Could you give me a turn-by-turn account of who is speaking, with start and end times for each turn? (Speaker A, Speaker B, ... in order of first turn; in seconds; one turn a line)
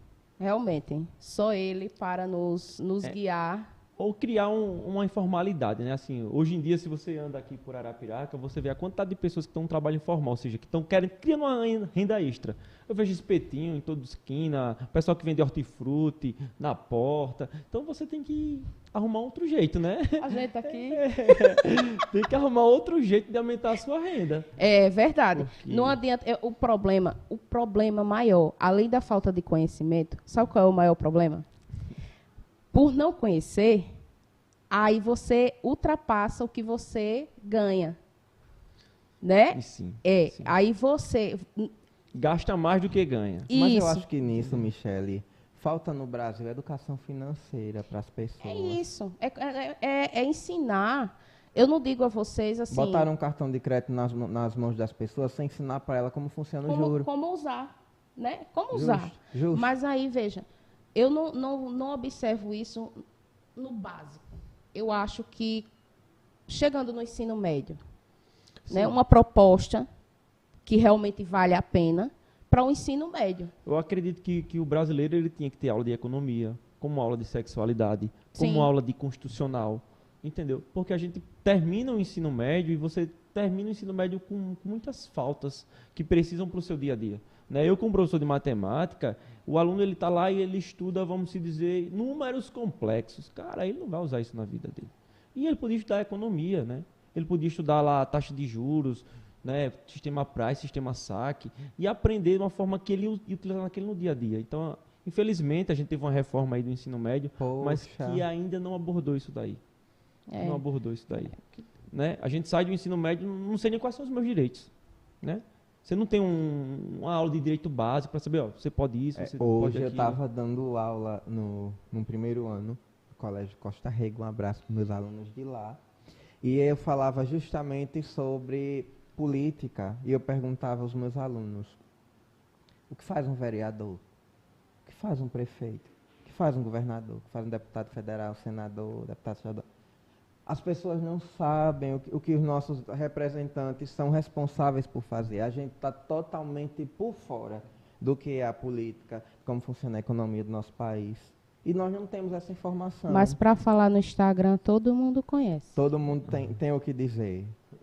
Speaker A: 0.4-3.7
Speaker B: 4.0-24.5
Speaker A: 20.2-21.0
Speaker A: 24.6-31.5
Speaker B: 25.4-26.0
Speaker A: 32.7-33.9
Speaker A: 34.7-38.0
Speaker A: 39.2-41.7
Speaker B: 39.5-40.5
Speaker B: 42.1-43.5
Speaker A: 43.5-44.0
Speaker C: 43.5-48.8
Speaker A: 48.4-53.1
Speaker C: 52.7-57.1
Speaker A: 56.7-63.0
Speaker C: 58.7-59.7
Speaker A: 63.6-65.7
Speaker A: 66.5-67.8
Speaker B: 68.7-69.0
Speaker A: 68.7-69.9
Speaker A: 70.7-73.5
Speaker B: 73.7-109.6
Speaker A: 78.4-78.7
Speaker C: 107.4-108.2
Speaker A: 110.3-110.6
Speaker B: 110.4-114.7
Speaker B: 115.2-120.2
Speaker C: 119.2-125.8
Speaker C: 126.4-131.8
Speaker C: 132.9-134.0
Speaker C: 134.8-139.7
Speaker C: 140.5-153.4
Speaker A: 153.1-155.8
Speaker C: 155.8-157.6